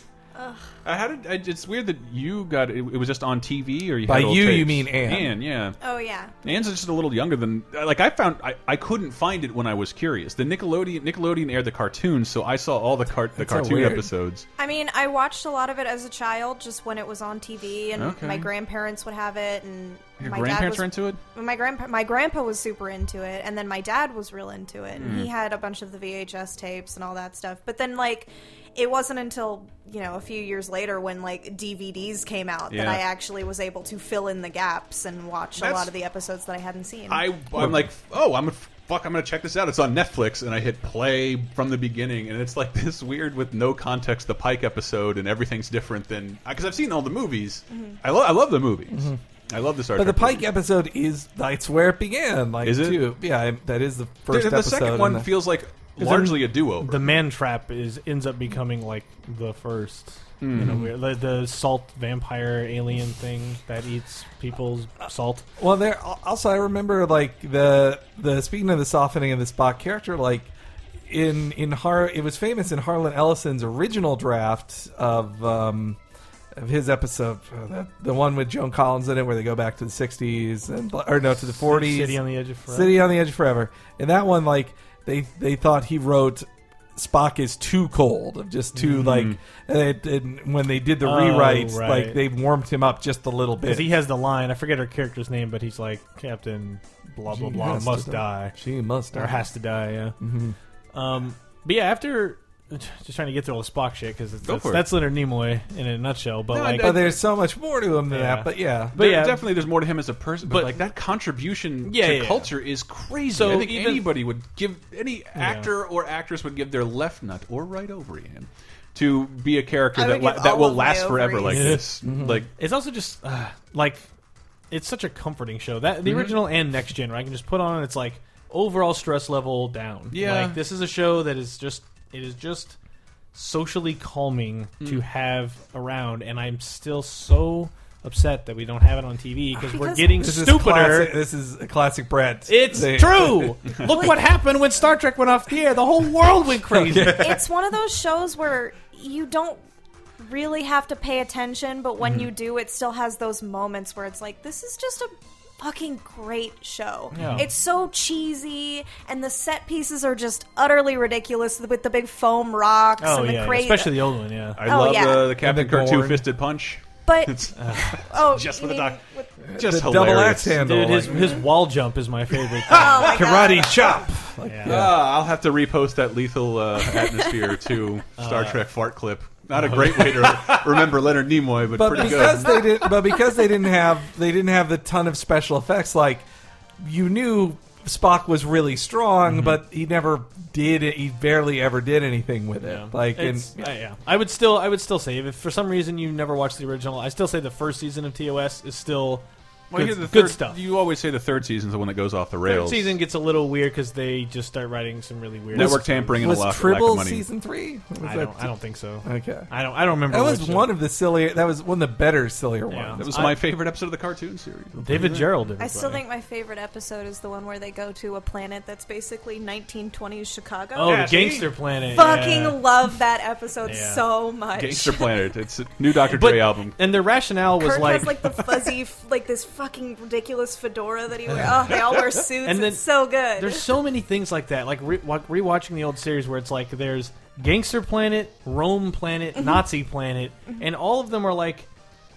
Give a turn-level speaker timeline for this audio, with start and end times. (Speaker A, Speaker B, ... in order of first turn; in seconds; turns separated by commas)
Speaker A: 0.3-0.7, Speaker B: 0.8-5.8, Speaker C: 4.0-5.3, Speaker A: 5.8-6.3, Speaker B: 6.4-14.4, Speaker C: 13.3-14.1, Speaker A: 14.6-37.3, Speaker B: 17.9-18.5, Speaker B: 20.2-21.2, Speaker B: 24.9-25.3, Speaker B: 32.7-33.0, Speaker B: 35.6-35.9, Speaker B: 37.1-50.5, Speaker C: 37.6-37.9, Speaker A: 47.7-48.0, Speaker C: 48.9-49.2, Speaker C: 49.9-55.3, Speaker B: 52.6-53.1, Speaker B: 54.3-57.1, Speaker D: 56.0-65.5, Speaker B: 60.4-60.9, Speaker C: 65.6-70.5, Speaker C: 71.1-76.0, Speaker C: 76.5-93.9, Speaker D: 81.6-83.0, Speaker B: 88.9-89.4, Speaker D: 91.0-92.2, Speaker D: 93.7-98.5, Speaker C: 97.3-99.4, Speaker D: 99.1-100.2, Speaker C: 100.2-100.5, Speaker D: 100.9-107.0, Speaker B: 104.4-104.9, Speaker B: 106.5-107.1, Speaker C: 106.8-109.0, Speaker D: 108.1-109.5, Speaker B: 108.9-122.5, Speaker D: 110.4-110.8, Speaker D: 111.8-112.5, Speaker D: 113.3-114.1, Speaker D: 115.3-115.7, Speaker A: 119.9-121.8, Speaker D: 121.5-121.8, Speaker C: 122.0-122.4, Speaker D: 122.5-124.0, Speaker D: 124.7-132.8, Speaker B: 126.0-126.4, Speaker B: 130.1-130.6, Speaker D: 133.3-141.2, Speaker A: 139.6-140.2, Speaker C: 140.1-143.6, Speaker D: 142.5-147.2, Speaker C: 146.7-147.3, Speaker A: 147.1-149.6, Speaker A: 150.2-164.1, Speaker D: 157.1-157.5, Speaker B: 157.2-157.4, Speaker D: 163.0-164.6, Speaker B: 164.6-168.4, Speaker A: 164.6-165.4, Speaker C: 165.3-166.2, Speaker A: 167.1-169.3, Speaker D: 167.5-167.9, Speaker C: 169.5-171.3, Speaker B: 169.6-170.6, Speaker D: 170.6-173.7, Speaker A: 172.7-173.8, Speaker C: 173.0-175.1, Speaker D: 174.4-174.8, Speaker B: 174.7-182.6, Speaker D: 178.2-178.6, Speaker D: 179.6-180.5, Speaker C: 181.7-186.2, Speaker C: 186.8-193.7, Speaker D: 192.6-200.6, Speaker B: 199.7-203.0, Speaker D: 202.4-206.2, Speaker B: 205.5-207.2, Speaker C: 205.5-208.5, Speaker D: 208.0-210.7, Speaker C: 209.0-209.5, Speaker C: 210.1-213.3, Speaker D: 212.7-213.4, Speaker B: 213.0-215.3, Speaker D: 214.8-216.0, Speaker A: 215.6-221.0, Speaker D: 220.7-222.7, Speaker B: 220.8-221.5, Speaker A: 221.9-225.1, Speaker D: 223.6-224.0, Speaker B: 224.5-226.8, Speaker D: 226.1-228.3, Speaker A: 227.6-233.7, Speaker D: 232.4-241.7, Speaker A: 239.3-239.6